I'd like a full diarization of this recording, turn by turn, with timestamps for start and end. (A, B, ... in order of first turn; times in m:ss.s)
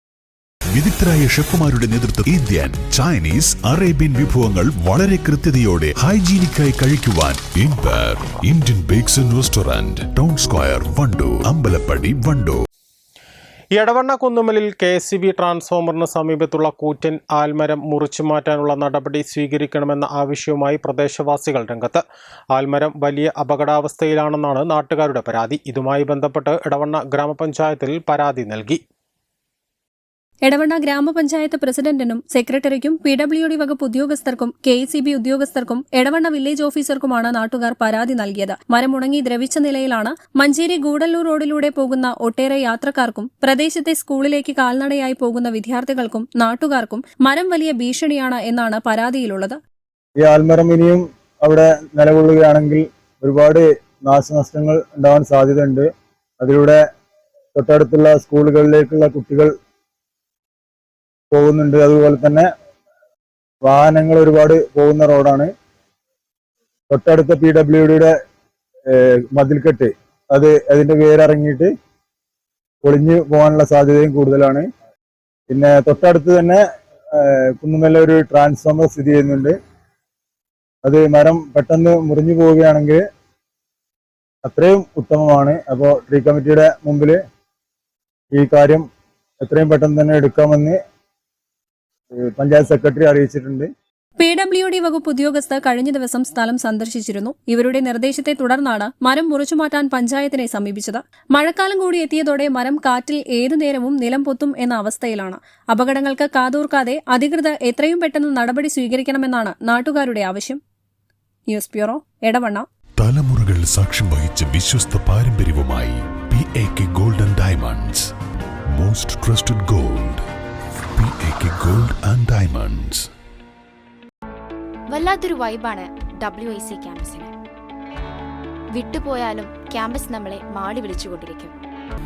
0:00.7-0:12.6 A
0:13.8-0:22.0 B
0:22.5-0:28.8 B
0:30.4-0:49.6 C
0:50.2-0:55.9 D
0:56.4-0:56.8 D
0:57.5-0:59.5 D
1:01.3-1:02.5 D
1:03.6-1:05.5 D
1:06.9-1:08.1 D
1:08.9-1:11.7 D
1:12.8-1:14.7 D
1:15.5-1:16.6 D
1:17.1-1:19.6 D
1:20.8-1:23.0 D
1:24.4-1:27.2 D
1:28.3-1:28.8 D
1:29.4-1:30.8 D
1:32.2-1:33.7 D
1:34.2-1:50.6 C
1:51.5-1:52.6 C
1:53.0-1:58.1 A
1:58.7-2:00.2 A
2:01.0-2:03.1 A
2:04.9-2:07.3 E
2:08.7-2:11.5 E